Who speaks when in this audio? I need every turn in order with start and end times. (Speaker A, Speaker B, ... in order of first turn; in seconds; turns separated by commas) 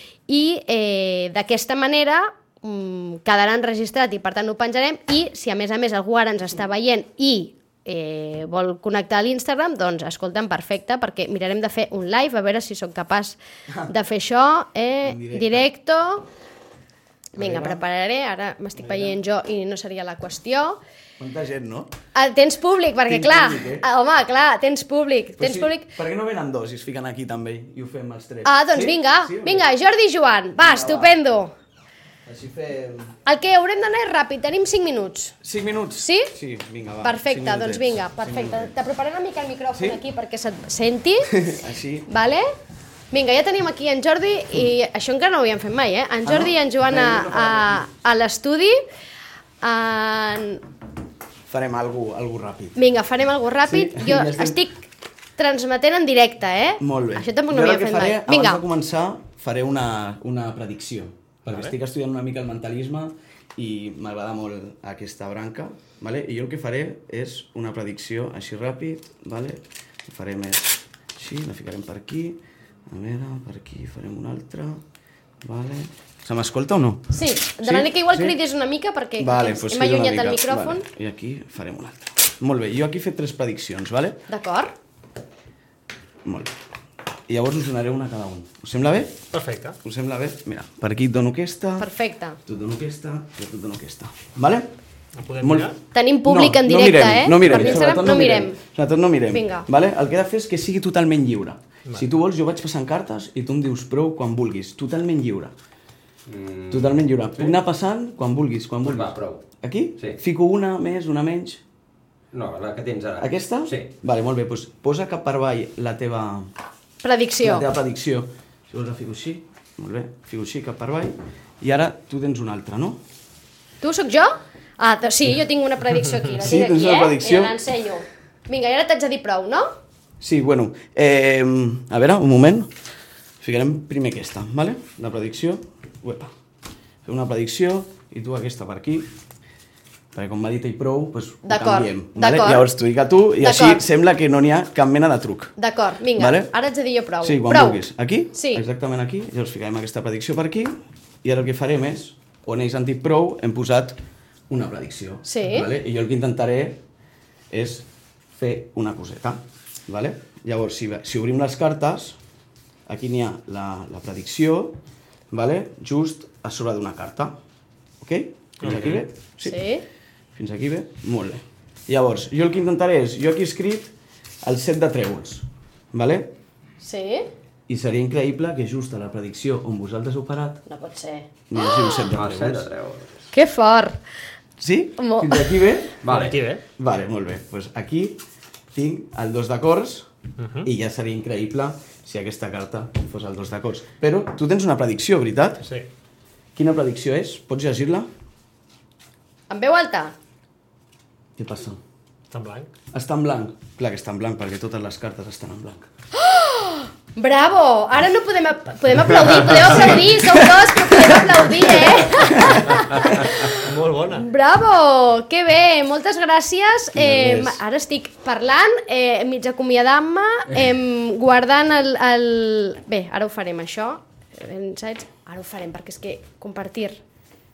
Speaker A: 0.3-16.3, Speaker B: 15.0-15.7, Speaker B: 17.4-17.8, Speaker A: 17.4-20.8, Speaker B: 18.9-19.1, Speaker B: 21.2-21.9, Speaker A: 22.1-25.9, Speaker B: 23.0-23.9, Speaker B: 25.4-29.7, Speaker A: 28.4-31.5, Speaker B: 30.6-31.2, Speaker B: 32.3-33.1, Speaker A: 33.2-35.4, Speaker B: 35.4-38.7, Speaker A: 36.0-36.3, Speaker A: 37.0-41.5, Speaker B: 39.7-40.0, Speaker B: 41.3-42.1, Speaker A: 42.1-42.5, Speaker A: 43.1-48.8, Speaker B: 46.2-47.8, Speaker A: 49.6-50.6, Speaker B: 51.5-52.8, Speaker A: 52.8-58.6, Speaker B: 53.7-54.6, Speaker B: 56.8-74.8, Speaker B: 75.4-78.4, Speaker A: 77.1-80.8, Speaker B: 79.2-84.2, Speaker A: 84.3-84.8, Speaker B: 86.2-86.5, Speaker B: 87.3-89.2, Speaker C: 89.3-89.8, Speaker B: 89.8-91.9, Speaker A: 91.8-92.4, Speaker B: 92.5-94.7, Speaker C: 95.2-95.8, Speaker B: 95.4-95.8, Speaker A: 95.9-98.6, Speaker B: 96.3-105.5, Speaker C: 97.5-98.0, Speaker A: 99.3-99.7, Speaker D: 106.3-107.6, Speaker B: 106.7-111.6, Speaker D: 108.8-109.4, Speaker D: 112.3-113.9, Speaker B: 113.2-116.5, Speaker A: 117.0-117.7, Speaker B: 117.4-123.0, Speaker A: 123.8-129.7, Speaker B: 126.4-127.6, Speaker B: 130.2-132.7, Speaker B: 133.4-136.3, Speaker B: 137.1-139.1, Speaker B: 140.1-145.6, Speaker A: 141.5-142.7, Speaker A: 143.4-143.8, Speaker A: 145.6-147.8, Speaker B: 146.2-146.5, Speaker B: 147.2-154.0, Speaker A: 148.3-148.6, Speaker B: 154.5-156.8, Speaker A: 155.2-155.7, Speaker B: 157.5-157.9, Speaker B: 158.4-162.2, Speaker B: 162.9-164.8, Speaker B: 165.3-167.4, Speaker B: 168.0-169.6, Speaker C: 168.6-169.0, Speaker A: 169.4-169.8, Speaker B: 170.4-173.9, Speaker B: 174.4-176.3, Speaker A: 176.8-177.3, Speaker B: 177.7-180.7, Speaker A: 180.7-182.0, Speaker B: 181.5-182.7, Speaker D: 182.1-183.2, Speaker A: 183.3-184.0, Speaker B: 184.6-188.2, Speaker A: 185.0-185.6, Speaker D: 186.0-186.4, Speaker C: 186.1-186.6, Speaker B: 188.7-190.1, Speaker C: 190.4-190.7, Speaker B: 190.6-195.7, Speaker B: 196.6-198.1, Speaker A: 199.5-200.1, Speaker B: 201.4-201.8, Speaker C: 202.3-202.7, Speaker B: 202.9-205.8, Speaker A: 206.1-227.0, Speaker B: 210.0-212.7, Speaker C: 213.5-214.3, Speaker B: 216.9-217.6